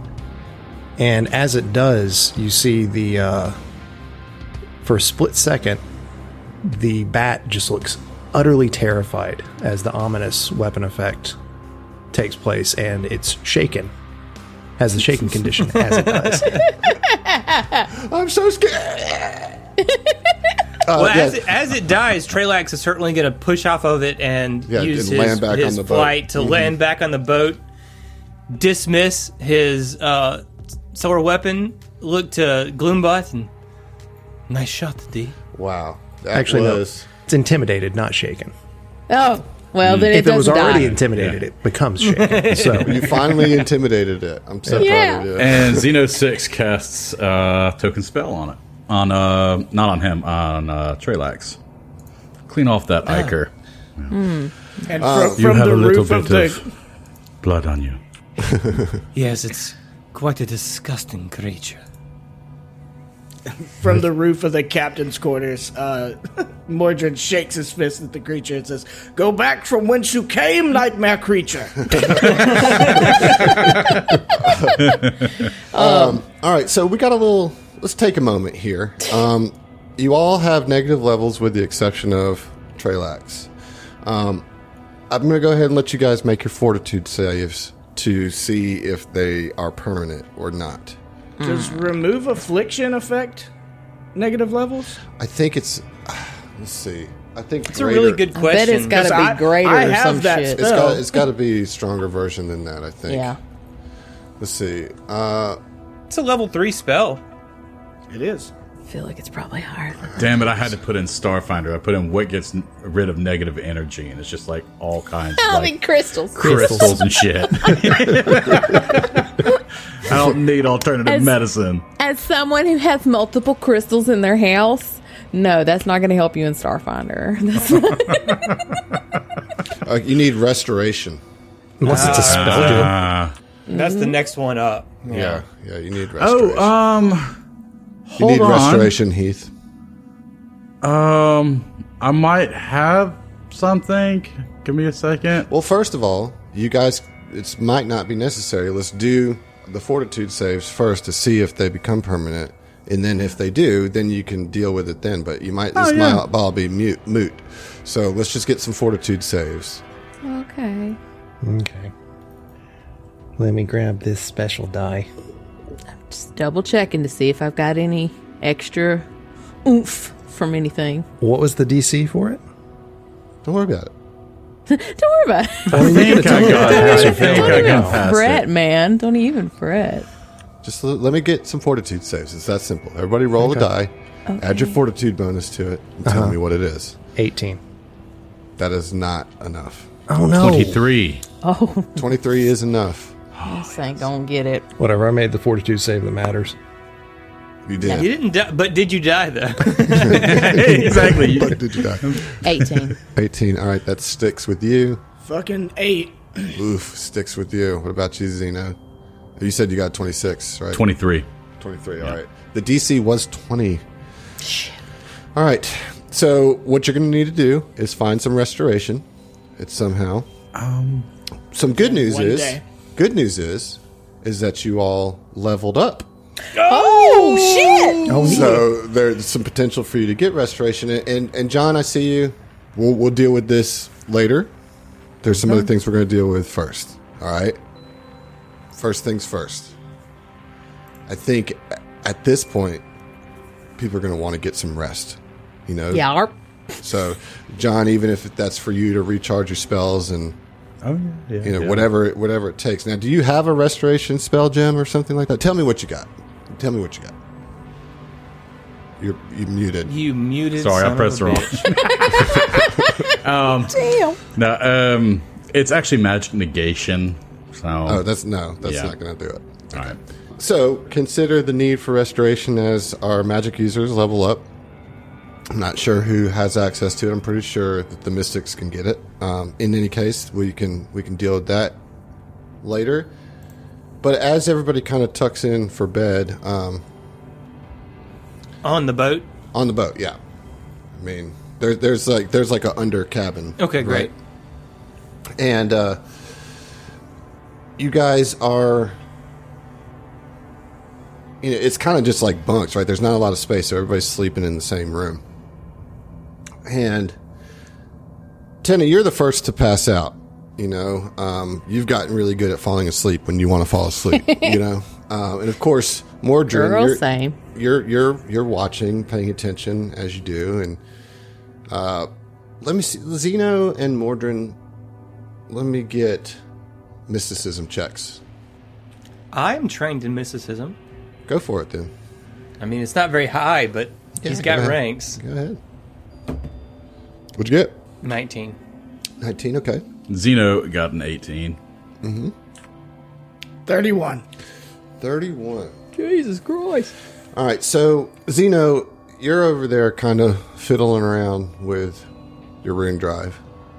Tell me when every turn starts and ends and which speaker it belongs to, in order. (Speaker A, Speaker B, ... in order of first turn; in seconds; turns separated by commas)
Speaker A: 1.0-3.6, Speaker A: 4.8-5.8, Speaker A: 6.6-11.3, Speaker A: 12.1-13.9, Speaker A: 14.8-16.6, Speaker B: 15.8-16.7, Speaker C: 16.9-17.8, Speaker D: 17.9-19.6, Speaker C: 19.8-20.2, Speaker D: 20.8-21.5, Speaker B: 20.9-27.6, Speaker D: 24.7-26.7, Speaker B: 28.5-33.5, Speaker B: 34.5-35.4, Speaker D: 35.5-37.1, Speaker A: 36.3-38.5, Speaker C: 39.1-41.0, Speaker E: 39.8-41.4, Speaker A: 40.1-43.0, Speaker B: 42.0-43.7, Speaker D: 42.8-45.9, Speaker A: 44.6-44.9, Speaker C: 44.8-45.3, Speaker E: 45.3-51.6, Speaker E: 52.5-54.1, Speaker B: 53.0-53.3, Speaker C: 54.1-55.0, Speaker F: 54.9-56.6, Speaker D: 55.0-55.4, Speaker E: 55.3-56.6, Speaker E: 57.4-58.0, Speaker D: 58.4-59.0, Speaker B: 59.1-61.8, Speaker F: 63.5-74.0, Speaker B: 72.2-73.0, Speaker D: 74.3-74.9, Speaker E: 74.8-75.5, Speaker C: 75.7-76.2, Speaker D: 75.7-83.5, Speaker D: 84.0-84.5, Speaker D: 85.1-91.0, Speaker C: 91.4-92.0, Speaker F: 91.4-93.5, Speaker F: 94.1-95.0, Speaker D: 95.2-98.2, Speaker B: 97.7-99.0, Speaker C: 98.3-101.0, Speaker F: 98.9-101.0, Speaker D: 100.5-103.4, Speaker C: 103.1-103.4, Speaker D: 104.4-105.6, Speaker B: 106.1-107.2, Speaker F: 108.1-108.5, Speaker C: 108.9-110.1, Speaker D: 110.0-110.7, Speaker E: 110.2-115.8, Speaker C: 115.4-117.0, Speaker E: 116.3-121.8, Speaker A: 116.4-117.0, Speaker C: 117.5-118.0, Speaker C: 121.0-121.4, Speaker C: 122.0-128.5, Speaker E: 128.1-128.9, Speaker D: 129.8-131.2, Speaker A: 131.8-133.0, Speaker B: 131.8-132.9, Speaker E: 131.9-133.3, Speaker B: 133.7-135.4, Speaker C: 133.7-134.1, Speaker D: 135.0-136.7, Speaker E: 136.2-137.4, Speaker E: 138.1-138.9, Speaker D: 138.2-139.5, Speaker E: 140.8-145.5, Speaker D: 145.5-159.8, Speaker E: 155.8-156.2, Speaker C: 160.2-161.0, Speaker A: 161.4-161.9, Speaker A: 163.4-165.1, Speaker C: 166.0-169.1, Speaker C: 169.6-171.1, Speaker A: 171.2-172.4, Speaker D: 173.4-173.9, Speaker C: 174.7-180.1, Speaker A: 175.7-178.0, Speaker E: 175.7-178.5, Speaker D: 180.6-187.0, Speaker A: 183.4-183.7, Speaker C: 184.3-184.8, Speaker A: 186.0-186.4, Speaker A: 187.2-187.6, Speaker D: 188.6-189.9, Speaker A: 190.1-190.8, Speaker E: 190.3-191.2, Speaker C: 191.4-192.0, Speaker D: 191.9-193.2, Speaker E: 193.3-194.1, Speaker C: 193.4-194.7, Speaker A: 194.8-196.6, Speaker D: 197.6-198.1, Speaker C: 197.8-198.1, Speaker B: 197.8-201.1, Speaker D: 199.8-202.4, Speaker E: 200.1-202.8, Speaker C: 202.4-203.0, Speaker D: 203.1-205.0, Speaker F: 205.2-206.6, Speaker D: 206.5-208.8, Speaker D: 209.4-210.8, Speaker E: 210.7-211.2, Speaker D: 211.6-213.8, Speaker C: 214.4-214.8, Speaker D: 215.3-219.1, Speaker D: 219.6-220.3, Speaker E: 220.5-221.1, Speaker D: 221.5-226.1, Speaker F: 221.8-222.6, Speaker B: 226.5-228.3, Speaker C: 226.6-228.4, Speaker A: 228.1-228.7, Speaker D: 228.2-234.5, Speaker D: 235.2-237.6, Speaker D: 238.7-239.7, Speaker D: 241.1-242.8, Speaker D: 243.8-246.1, Speaker C: 245.9-246.8, Speaker D: 246.8-250.4, Speaker E: 250.8-251.9, Speaker D: 251.4-257.1, Speaker D: 259.0-259.9, Speaker B: 259.8-261.9, Speaker E: 260.6-268.0, Speaker C: 261.8-263.2, Speaker C: 263.7-264.2, Speaker D: 267.9-274.4, Speaker E: 268.6-268.9, Speaker E: 269.7-270.0, Speaker D: 275.5-281.8, Speaker D: 282.6-283.1, Speaker D: 284.0-286.8, Speaker B: 288.6-289.2, Speaker D: 289.5-290.2, Speaker D: 290.9-294.1, Speaker B: 293.6-294.1, Speaker D: 295.4-296.0, Speaker D: 297.8-298.9, Speaker D: 301.4-305.2, Speaker D: 306.6-307.2, Speaker D: 308.6-320.8, Speaker C: 314.2-314.5, Speaker C: 316.5-317.4, Speaker D: 321.7-322.1, Speaker D: 322.6-324.6, Speaker D: 325.5-326.4, Speaker D: 327.1-328.2, Speaker B: 329.3-330.8, Speaker D: 331.3-331.9, Speaker B: 332.6-335.2, Speaker D: 334.2-335.6, Speaker D: 337.4-337.8, Speaker B: 338.0-338.6, Speaker D: 339.2-339.8, Speaker E: 340.1-341.6, Speaker D: 342.0-342.3, Speaker F: 343.6-344.2, Speaker D: 345.0-345.8, Speaker B: 345.9-346.9, Speaker D: 347.3-352.1, Speaker D: 352.6-353.4